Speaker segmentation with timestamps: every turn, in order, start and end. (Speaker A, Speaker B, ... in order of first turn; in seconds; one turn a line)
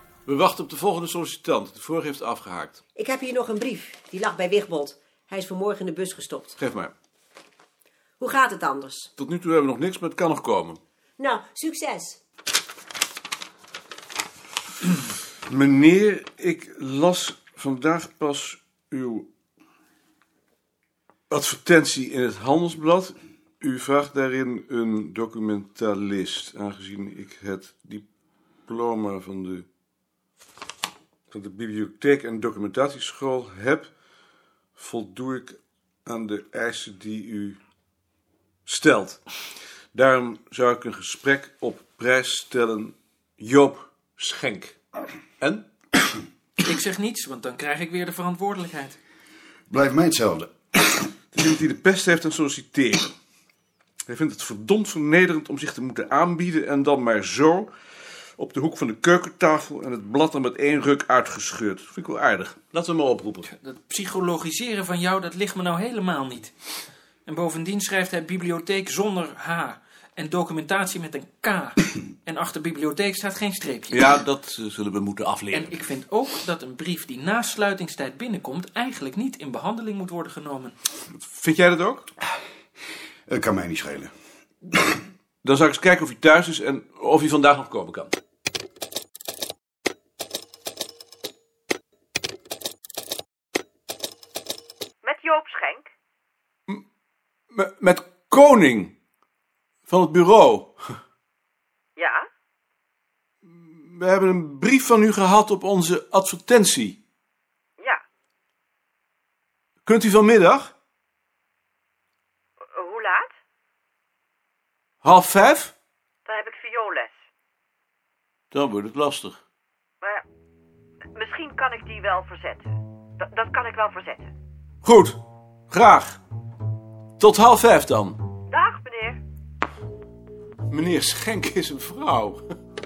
Speaker A: 0.3-2.8
Speaker B: 3.0-6.5
Speaker A: 6.6-6.9
Speaker B: 8.2-9.1
Speaker A: 9.2-10.8
Speaker B: 11.2-12.2
Speaker A: 15.5-19.3
Speaker A: 21.3-28.0
Speaker A: 28.7-29.7
Speaker A: 31.3-33.9
Speaker A: 34.8-37.6
Speaker A: 38.7-39.2
Speaker A: 39.9-44.8
Speaker C: 46.6-49.0
Speaker D: 49.7-51.0
Speaker A: 51.4-53.1
Speaker A: 54.1-57.7
Speaker A: 58.4-63.5
Speaker C: 63.5-66.5
Speaker C: 67.3-74.0
Speaker A: 73.9-75.8
Speaker C: 75.5-80.8
Speaker A: 81.2-82.1
Speaker D: 83.3-84.1
Speaker A: 85.4-88.2
Speaker E: 95.4-95.7
Speaker A: 97.5-99.0
Speaker A: 99.9-100.8
Speaker A: 103.5-107.0
Speaker A: 109.8-110.7
Speaker E: 112.8-113.2
Speaker A: 115.0-115.7
Speaker E: 116.3-117.1
Speaker A: 118.5-119.4
Speaker E: 121.2-122.6
Speaker E: 123.3-124.2
Speaker A: 124.8-125.2
Speaker A: 125.7-126.2
Speaker A: 127.2-128.2
Speaker E: 128.6-129.2
Speaker A: 130.7-132.4